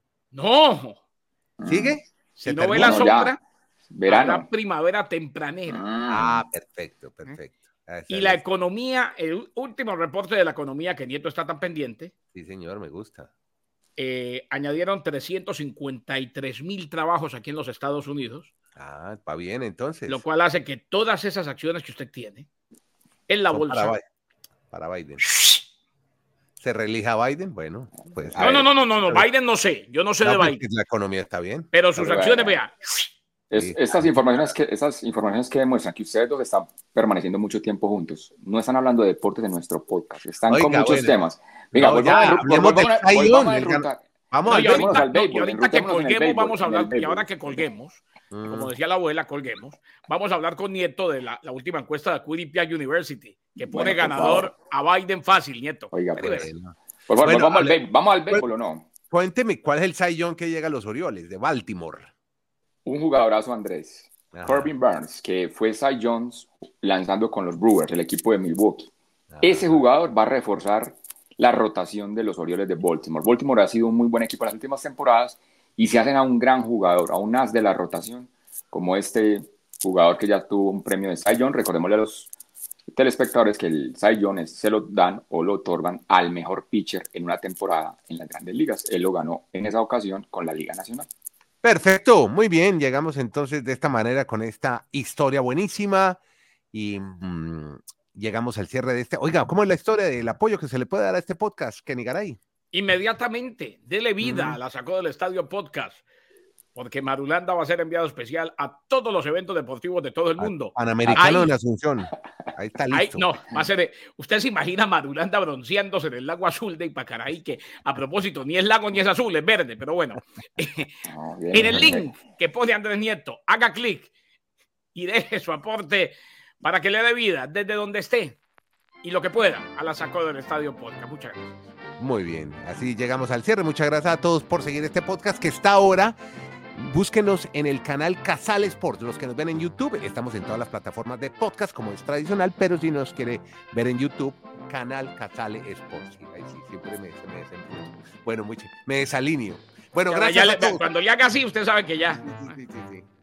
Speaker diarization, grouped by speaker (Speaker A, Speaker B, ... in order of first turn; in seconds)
Speaker A: 0.3-1.0, 2.4-3.4, 4.1-5.8, 8.1-12.1, 14.0-18.5, 20.1-22.5, 23.3-23.9, 28.4-30.6, 31.7-33.1, 44.5-56.5, 102.7-106.0, 106.8-111.5, 112.9-124.1, 124.9-128.4, 129.0-131.6, 150.1-152.6
Speaker B: 1.6-2.0, 2.7-3.4, 3.9-4.5, 5.7-6.4, 28.0-28.6, 32.0-32.6, 33.5-47.4, 53.6-54.5, 55.9-56.5, 57.1-58.9, 62.9-82.3, 82.9-91.1, 111.0-111.3, 121.1-122.1
Speaker C: 1.7-3.1, 6.1-8.4, 12.3-13.3, 18.8-20.2, 23.5-24.0, 24.7-25.3, 26.6-29.3, 30.2-31.7, 33.5-34.3, 40.5-41.2, 41.7-45.0, 48.3-48.7, 56.4-57.8, 59.1-62.1, 64.3-64.7, 69.3-69.8, 91.6-96.2, 96.7-102.4, 104.2-104.6, 110.4-113.3, 132.0-136.2, 136.8-150.9, 152.2-153.1